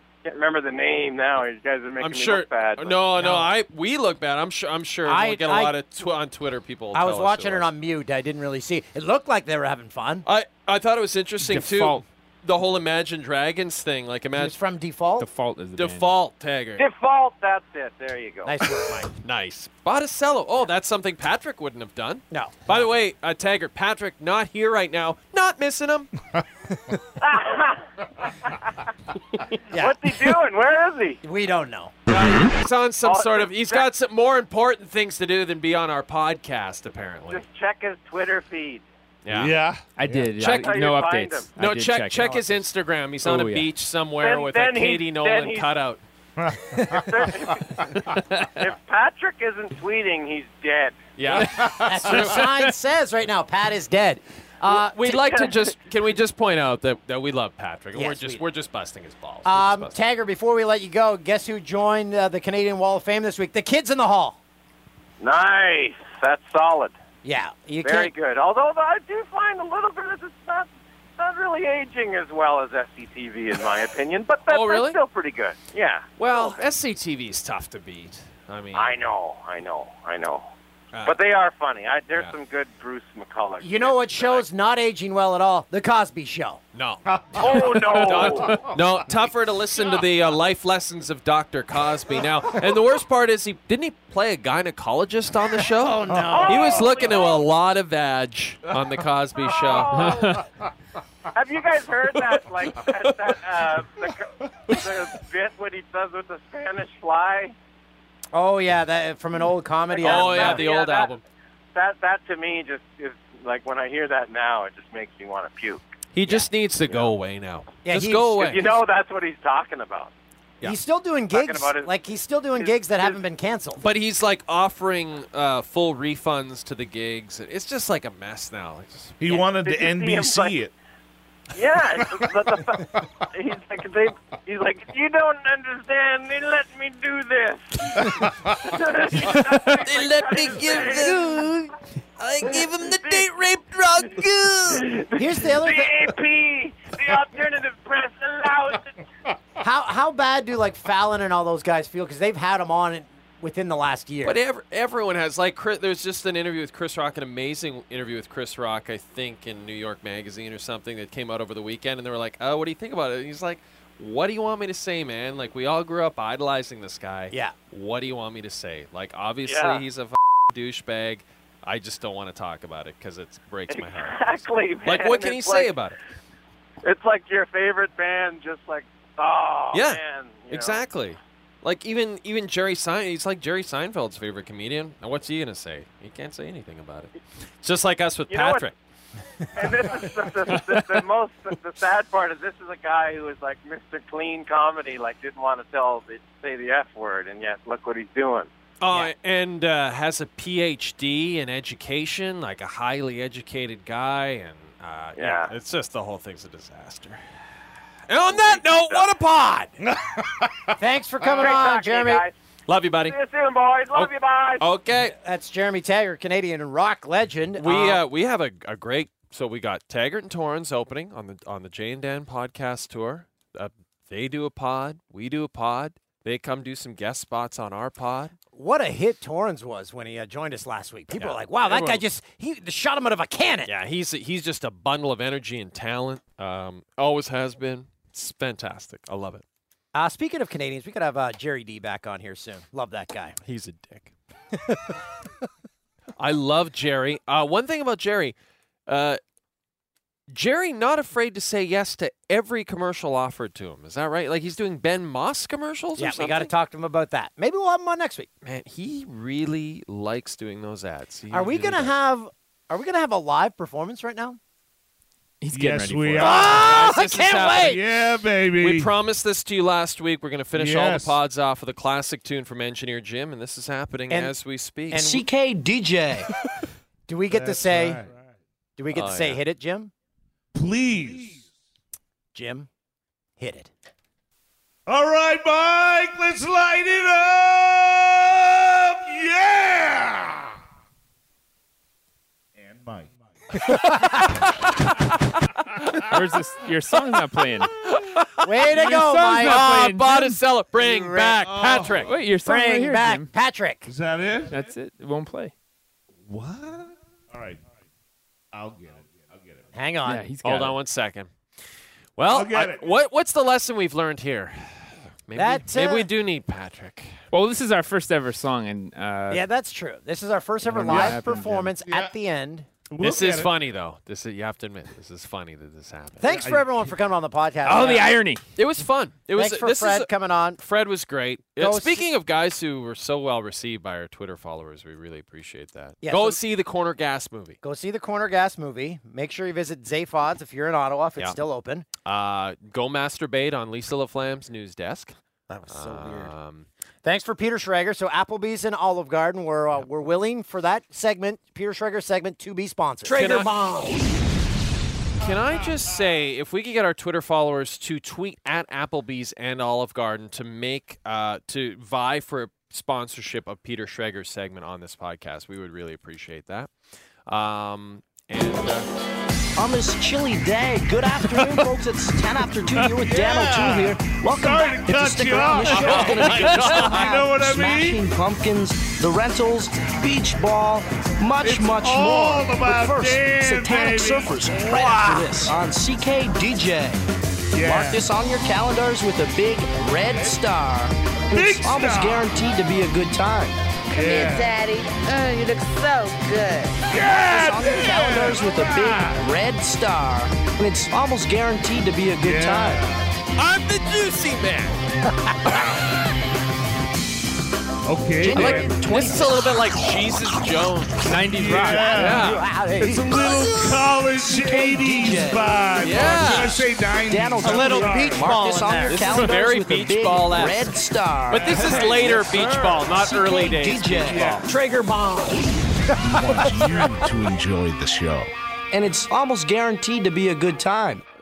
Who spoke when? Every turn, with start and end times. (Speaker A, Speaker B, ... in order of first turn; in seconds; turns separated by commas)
Speaker A: 0.2-3.0, Speaker B: 2.0-7.7, Speaker C: 3.2-3.5, Speaker C: 5.0-5.7, Speaker C: 6.9-10.2, Speaker B: 10.2-14.5, Speaker D: 11.4-12.0, Speaker C: 14.3-15.3, Speaker D: 15.2-16.1, Speaker B: 15.8-16.9, Speaker A: 16.8-18.5, Speaker C: 18.4-19.1, Speaker B: 19.2-26.1, Speaker C: 22.3-22.7, Speaker A: 27.2-27.8, Speaker C: 29.7-30.1, Speaker A: 29.8-31.2, Speaker C: 31.2-31.9, Speaker B: 32.1-37.4, Speaker A: 33.0-33.9, Speaker A: 37.3-38.8, Speaker B: 39.2-39.5, Speaker E: 39.3-40.3, Speaker D: 40.0-42.7, Speaker B: 40.4-40.8, Speaker A: 40.4-41.5, Speaker B: 41.5-46.0, Speaker D: 43.2-43.7, Speaker A: 44.1-45.7, Speaker E: 46.4-47.2, Speaker A: 46.9-47.6, Speaker A: 48.6-51.0, Speaker B: 51.1-52.4, Speaker E: 51.3-52.2, Speaker C: 51.8-55.2, Speaker B: 54.7-59.9, Speaker A: 55.1-55.6, Speaker C: 57.9-58.4, Speaker C: 59.4-64.4, Speaker A: 65.2-66.9, Speaker C: 67.2-68.1, Speaker A: 67.8-76.6, Speaker B: 74.5-75.0, Speaker B: 76.2-79.0, Speaker A: 78.7-80.5, Speaker A: 81.0-84.4, Speaker C: 83.6-86.6, Speaker B: 86.7-100.3, Speaker E: 87.1-88.7, Speaker A: 87.4-88.5, Speaker E: 95.8-97.0, Speaker C: 95.8-96.9, Speaker A: 96.3-97.4, Speaker A: 99.4-100.4, Speaker A: 101.3-107.5, Speaker E: 104.7-104.9, Speaker C: 108.3-110.7, Speaker A: 109.9-111.1, Speaker B: 110.0-111.2, Speaker A: 111.7-115.8, Speaker B: 116.1-118.7, Speaker C: 117.8-118.6, Speaker A: 118.4-120.1, Speaker C: 120.6-123.8, Speaker A: 121.3-121.9, Speaker A: 122.6-123.2, Speaker B: 123.8-129.2, Speaker E: 129.2-130.7, Speaker A: 129.3-130.7, Speaker A: 131.5-141.2, Speaker E: 131.8-133.1, Speaker E: 138.1-138.7, Speaker B: 139.7-145.0, Speaker C: 141.1-141.4, Speaker A: 142.9-143.3, Speaker A: 144.7-148.9, Speaker C: 145.2-146.1, Speaker C: 149.6-154.4, Speaker B: 154.2-174.2, Speaker A: 169.4-169.8, Speaker A: 173.7-175.8, Speaker B: 174.8-176.0, Speaker A: 176.8-180.8, Speaker B: 179.7-188.7, Speaker A: 188.3-188.7, Speaker A: 189.6-198.5, Speaker B: 190.7-191.0, Speaker B: 198.8-207.2, Speaker A: 205.2-205.5, Speaker B: 208.1-209.7, Speaker A: 208.3-209.1, Speaker E: 209.8-211.5, Speaker C: 210.8-212.2, Speaker A: 211.3-212.3, Speaker B: 212.7-213.2, Speaker A: 213.0-214.7, Speaker B: 213.9-215.2, Speaker C: 215.0-218.0, Speaker B: 217.6-228.3, Speaker C: 228.5-233.7, Speaker B: 231.1-232.0, Speaker B: 233.7-239.4, Speaker C: 239.9-243.4, Speaker B: 243.4-244.1, Speaker B: 246.2-248.3, Speaker B: 248.9-249.2, Speaker B: 250.3-256.5, Speaker C: 256.0-258.3, Speaker B: 258.4-261.9, Speaker C: 261.3-264.4, Speaker D: 265.4-266.6, Speaker E: 265.5-266.6, Speaker C: 266.2-267.8, Speaker B: 266.2-267.8, Speaker E: 267.5-268.9, Speaker B: 268.6-275.0, Speaker E: 270.5-271.2, Speaker C: 274.1-274.3, Speaker C: 274.9-275.2, Speaker F: 274.9-276.3, Speaker C: 277.1-278.0, Speaker E: 277.3-278.1, Speaker C: 278.8-279.9, Speaker B: 278.9-279.4, Speaker E: 280.5-281.4, Speaker C: 282.3-282.7, Speaker C: 283.4-283.7, Speaker E: 284.9-290.5, Speaker E: 292.6-293.1, Speaker C: 293.6-294.2, Speaker D: 296.1-297.7, Speaker B: 297.9-302.1, Speaker C: 298.4-299.7, Speaker D: 298.6-300.3, Speaker C: 300.9-301.4, Speaker E: 301.4-302.1, Speaker D: 302.0-303.3, Speaker C: 302.4-303.9, Speaker E: 303.9-304.7, Speaker D: 304.5-305.5, Speaker E: 306.3-307.6, Speaker E: 308.5-309.6, Speaker C: 309.7-310.3, Speaker D: 310.1-310.8, Speaker B: 310.4-311.3, Speaker B: 312.2-317.1, Speaker E: 312.3-312.9, Speaker C: 315.3-316.1, Speaker D: 317.3-319.4, Speaker C: 319.3-322.7, Speaker D: 320.7-321.7, Speaker E: 320.9-322.1, Speaker E: 322.9-323.5, Speaker B: 323.0-326.2, Speaker C: 326.2-328.2, Speaker E: 326.3-326.8, Speaker D: 327.6-328.4, Speaker B: 328.6-337.6, Speaker C: 329.3-330.6, Speaker C: 331.6-332.1, Speaker C: 336.0-336.4, Speaker C: 337.6-341.9, Speaker B: 342.0-345.1, Speaker C: 345.5-346.3, Speaker B: 345.7-346.7, Speaker C: 347.0-353.8, Speaker B: 353.1-354.0, Speaker B: 355.2-366.7, Speaker B: 367.3-368.9, Speaker F: 369.6-387.0, Speaker E: 373.0-378.0, Speaker B: 375.9-376.6, Speaker E: 381.4-385.5, Speaker E: 387.5-388.1, Speaker F: 387.6-393.6, Speaker E: 391.3-392.3, Speaker G: 393.9-396.8, Speaker E: 393.9-394.6, Speaker E: 396.9-399.2, Speaker F: 397.0-402.8, Speaker E: 402.2-403.0, Speaker B: 403.4-404.8, Speaker C: 405.2-405.5, Speaker E: 407.9-408.8, Speaker F: 408.2-409.5, Speaker B: 408.3-411.1, Speaker D: 411.0-412.3, Speaker E: 411.1-418.3, Speaker B: 411.9-412.4, Speaker C: 412.0-413.1, Speaker F: 412.8-422.1, Speaker B: 415.8-416.6, Speaker C: 417.4-419.2, Speaker B: 418.9-420.7, Speaker B: 421.3-424.4, Speaker E: 421.4-422.9, Speaker F: 422.9-424.5, Speaker E: 424.0-424.5, Speaker C: 424.5-426.8, Speaker E: 426.0-428.3, Speaker F: 428.7-431.0